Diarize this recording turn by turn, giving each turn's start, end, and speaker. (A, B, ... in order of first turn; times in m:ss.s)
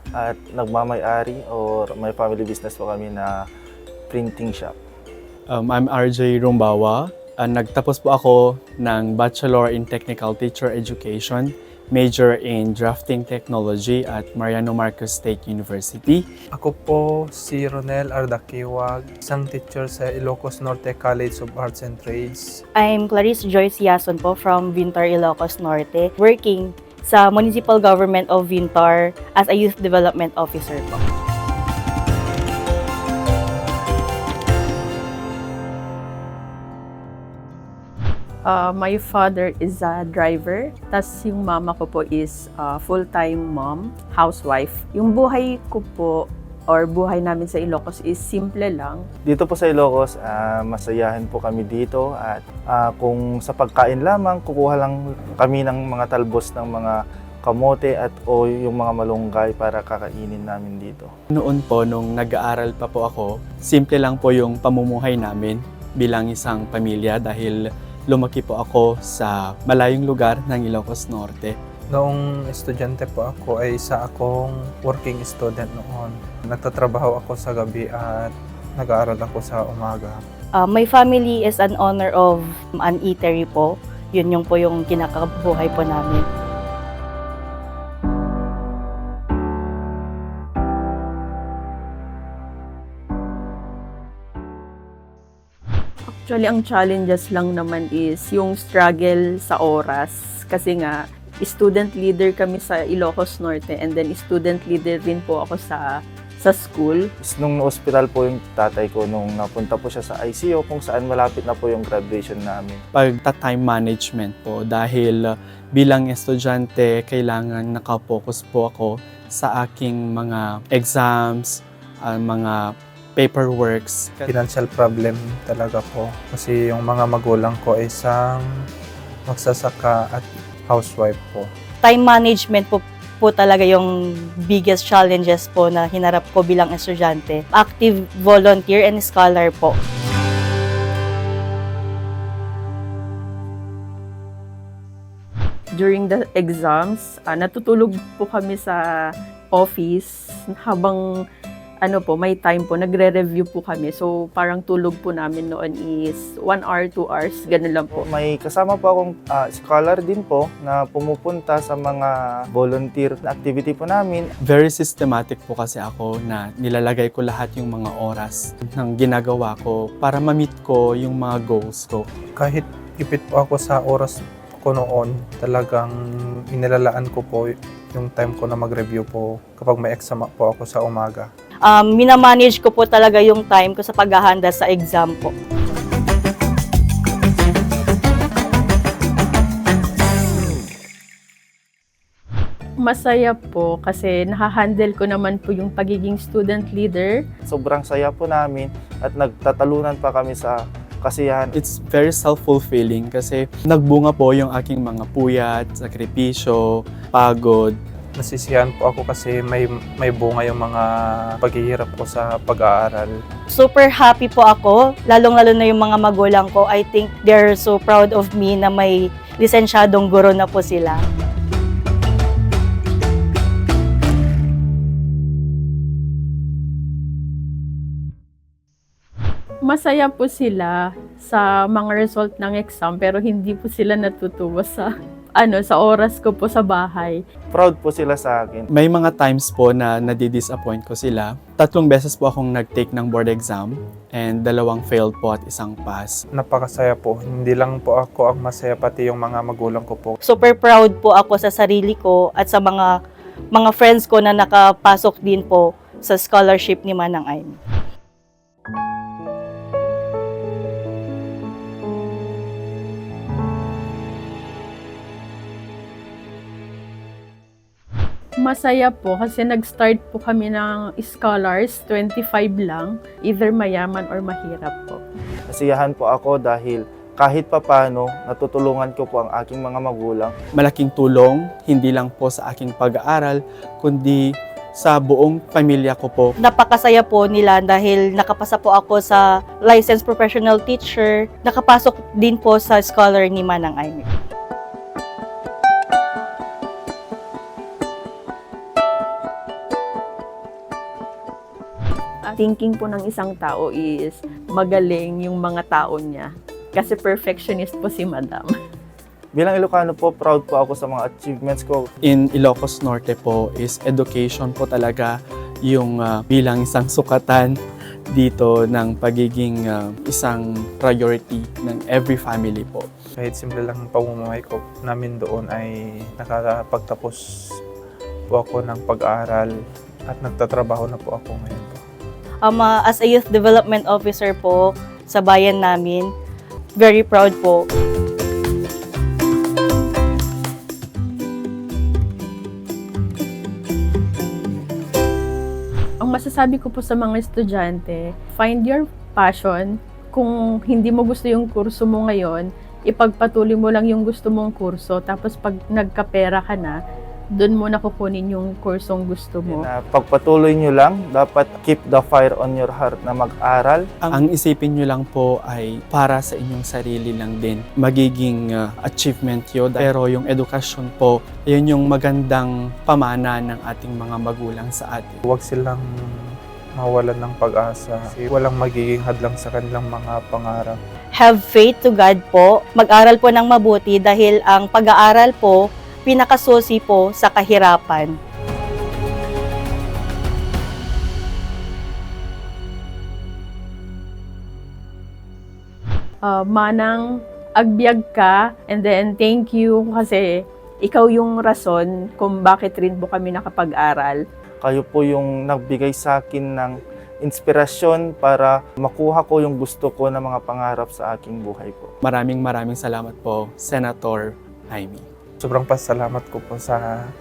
0:00.1-0:03.3 A
0:04.1-0:04.7 A
0:05.5-0:16.2 B
0:16.6-0:22.5 C
0:22.8-0:31.0 D
0:38.4-0:49.0 E
0:49.2-1:01.1 A
1:01.3-1:07.6 B
1:08.1-1:11.5 B
1:11.9-1:20.2 C
1:20.7-1:26.2 D
1:36.1-1:45.8 E
1:46.4-1:47.0 E
1:47.2-1:52.8 A
1:52.9-1:55.2 B
1:55.7-2:01.5 B
2:02.0-2:02.6 B
2:03.2-2:04.3 B
2:04.3-2:08.4 C
2:09.3-2:11.5 C
2:11.8-2:13.8 D
2:14.5-2:19.7 D
2:25.8-2:28.8 E
2:29.5-2:31.0 E
2:31.8-2:38.0 E
2:37.9-2:44.3 A
2:44.4-2:52.0 B
2:52.4-2:56.0 C
2:56.5-3:01.3 C
3:01.7-3:05.3 D
3:12.8-3:17.2 E
3:17.5-3:21.5 A
3:21.6-3:27.8 B
3:28.2-3:30.9 C
3:31.4-3:33.1 C
3:33.6-3:41.0 D
3:49.6-3:57.2 E
3:57.5-3:58.7 A
3:58.7-4:06.2 B
4:06.4-4:10.2 C
4:10.4-4:12.8 D
4:13.6-4:17.5 D
4:28.4-4:35.0 E
4:35.5-4:40.3 A
4:40.6-4:44.2 B
4:44.8-4:46.3 B
4:46.5-4:54.1 D
5:02.3-5:08.5 E
5:09.3-5:11.8 A
5:12.0-5:15.1 B
5:15.6-5:17.5 B
5:18.1-5:22.9 B
5:23.2-5:27.2 C
5:28.3-5:29.5 C
5:30.1-5:31.8 C
5:32.5-5:36.1 D
5:36.8-5:37.6 D
5:46.0-5:56.8 E
5:57.4-5:59.6 E
5:59.5-6:03.9 A
6:04.0-6:15.2 B
6:15.3-6:15.8 C
6:16.8-6:20.8 C
6:21.2-6:28.1 D
6:36.2-6:37.0 E
6:37.6-6:40.2 E
6:40.8-6:44.2 E
6:44.6-6:51.9 A
6:52.0-6:55.0 B
6:55.4-6:57.0 C